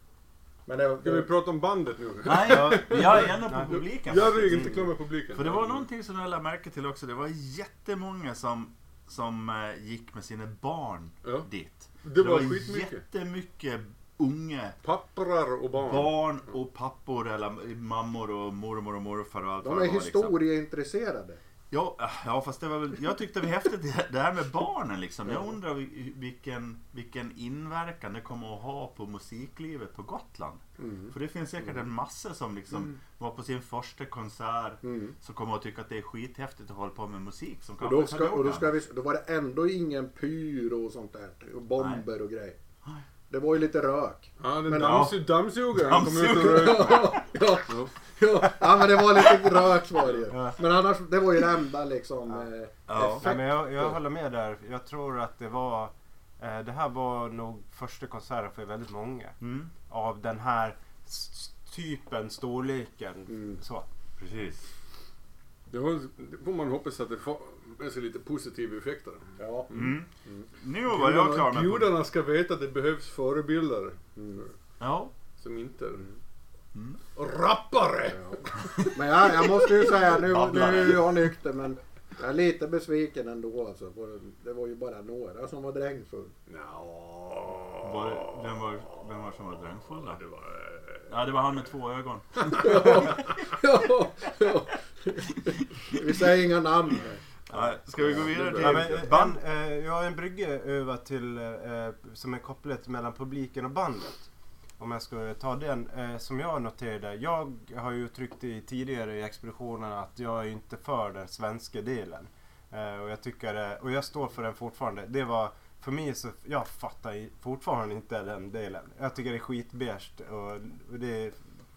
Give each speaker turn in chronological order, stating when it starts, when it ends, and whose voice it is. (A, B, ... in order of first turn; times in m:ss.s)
0:00.7-0:01.3 A
0:01.0-0:05.8 B
0:02.2-0:14.8 C
0:02.4-0:03.8 D
0:12.0-0:13.0 B
0:14.8-0:16.1 B
0:15.8-0:20.4 C
0:19.6-0:21.4 A
0:21.7-0:38.8 C
0:30.8-0:31.1 A
0:34.8-0:35.2 A
0:37.8-0:42.6 A
0:41.8-0:42.0 C
0:43.3-0:45.1 A
0:44.4-0:47.1 B
0:44.8-0:47.2 C
0:46.4-0:54.0 A
0:50.3-0:50.6 D
0:52.9-0:53.3 C
0:53.2-0:59.4 D
0:59.4-0:59.7 C
0:59.9-1:03.9 D
1:03.3-1:03.6 A
1:04.2-1:04.6 C
1:05.7-1:09.9 B
1:09.4-1:09.7 A
1:09.7-1:11.9 C
1:10.9-1:14.5 B
1:14.2-1:14.4 A
1:14.8-1:15.1 C
1:15.4-1:16.1 B
1:16.7-1:17.0 C
1:17.2-1:19.0 B
1:18.1-1:26.3 A
1:20.1-1:21.2 C
1:26.5-1:28.8 B
1:27.8-1:30.2 C
1:30.0-1:31.1 B
1:31.1-1:33.3 C
1:32.5-1:37.2 A
1:37.5-1:39.4 C
1:38.0-1:38.9 B
1:38.5-1:44.3 D
1:44.8-2:01.4 D